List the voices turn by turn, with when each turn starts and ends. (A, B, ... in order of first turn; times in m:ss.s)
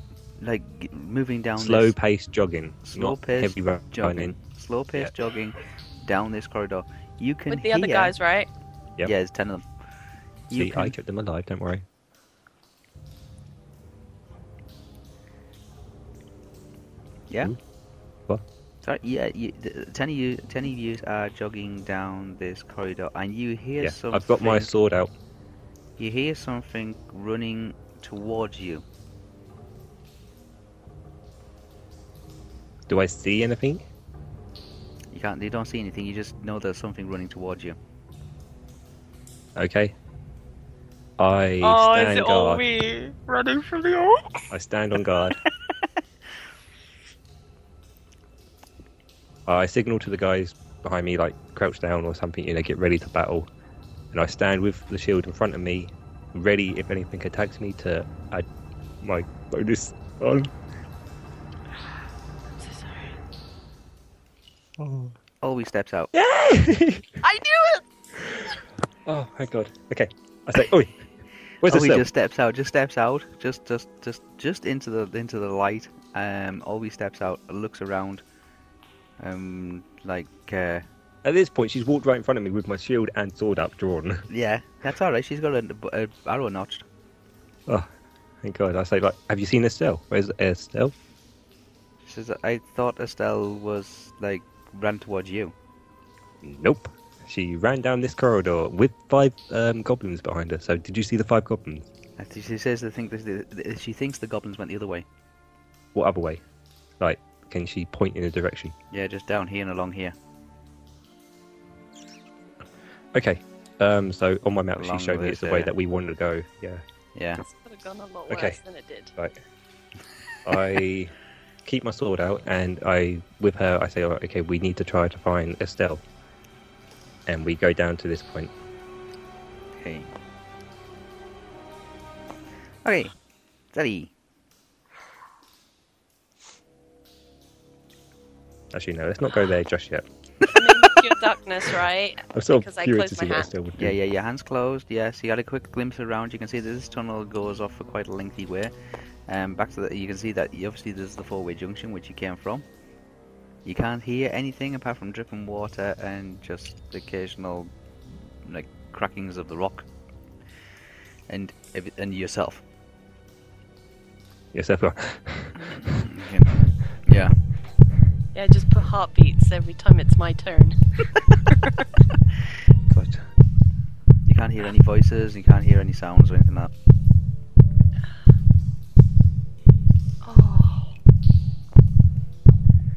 0:00.4-0:02.0 A
0:01.6-0:04.4 B
0:02.8-0:08.1 A
0:07.5-0:08.5 C
0:09.0-0:09.7 A
0:10.5-0:10.9 A
0:10.5-0:11.8 B
0:18.8-0:24.7 A
0:23.8-0:25.1 B
0:26.0-0:28.8 A
0:32.9-0:33.9 B
0:35.1-0:37.8 A
0:39.6-0:39.9 B
0:41.2-0:42.6 B
0:41.6-0:44.5 C
0:44.5-0:45.4 B
0:49.5-0:53.5 B
0:54.1-0:58.5 B
0:59.0-1:00.5 B
1:02.6-1:03.1 C
1:04.8-1:05.2 B
1:05.4-1:06.1 A
1:06.1-1:07.2 B
1:07.2-1:07.8 C
1:09.0-1:11.1 B
1:11.6-1:12.1 B
1:11.6-1:18.2 A
1:19.2-1:20.8 A
1:21.2-1:24.3 B
1:24.3-1:26.9 A
1:28.4-1:30.9 B
1:32.0-1:35.5 A
1:36.4-1:41.9 B
1:42.2-1:45.1 A
1:45.9-1:46.4 B
1:47.0-1:48.7 B
1:48.9-1:50.2 A
1:53.1-1:56.8 B
1:54.7-1:55.7 A
1:57.2-1:57.4 A
1:57.4-1:59.1 C
1:58.3-1:58.6 B
2:00.4-2:06.0 B
2:07.3-2:08.5 B
2:09.8-2:10.1 A
2:12.8-2:13.2 A
2:13.7-2:14.1 A
2:18.7-2:20.1 B
2:20.5-2:23.5 C
2:22.4-2:24.0 B
2:23.8-2:28.7 A
2:29.3-2:32.6 A
2:33.6-2:37.7 A
2:38.4-2:39.9 A
2:41.3-2:42.6 A
2:44.5-2:46.0 B
2:45.6-2:47.4 A
2:48.3-2:51.8 C
2:52.9-2:53.3 B
2:54.3-2:56.7 A
3:00.2-3:00.9 C